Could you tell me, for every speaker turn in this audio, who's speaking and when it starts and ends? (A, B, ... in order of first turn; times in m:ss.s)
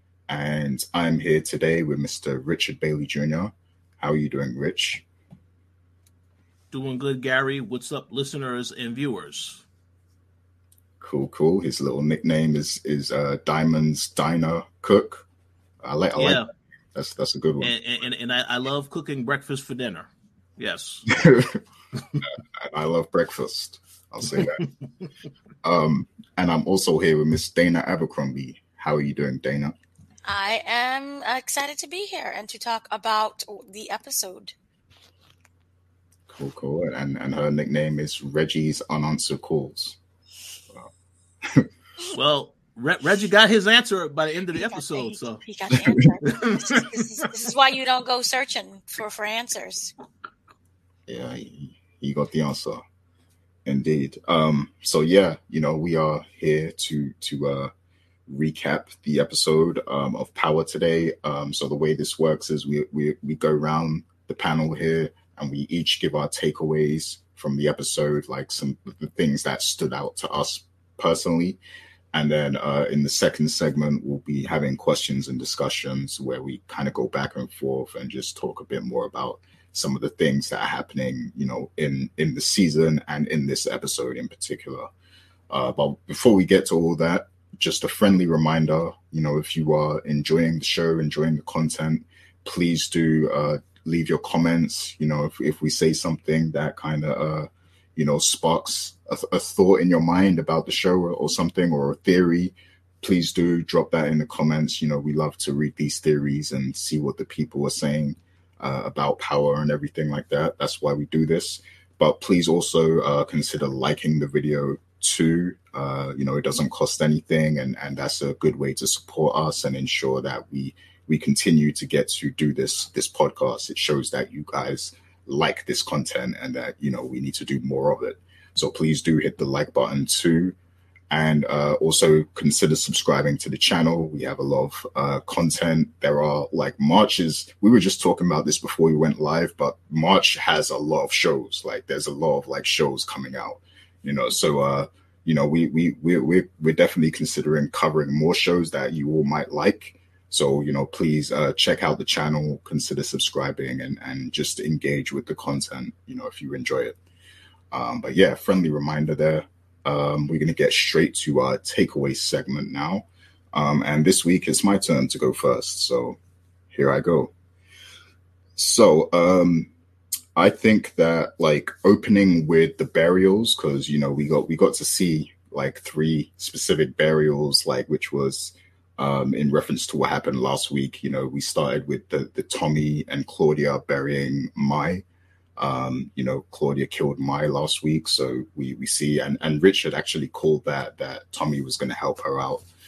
0:00.3-0:05.0 A
0:06.7-0:09.6 B
0:11.0-0:15.3 A
0:15.8-0:17.7 A
0:16.2-0:16.5 B
0:17.6-0:21.1 B
0:21.1-0:21.6 A
0:22.2-0:24.6 A
0:24.3-0:24.7 B
0:25.6-0:29.8 A
0:30.2-0:34.5 C
0:36.3-0:40.0 A
0:41.4-0:41.7 A
0:42.1-0:45.4 B
0:44.5-0:49.9 C
0:46.3-0:47.0 B
0:51.1-0:52.8 A
0:53.6-0:57.7 A
0:58.3-1:11.6 A
1:12.1-1:24.9 A
1:25.5-2:10.6 A
2:11.1-2:37.0 A
2:37.7-2:46.2 A
2:46.7-2:47.3 A
2:48.6-2:49.7 A
2:50.4-3:05.0 A
3:05.6-3:12.7 A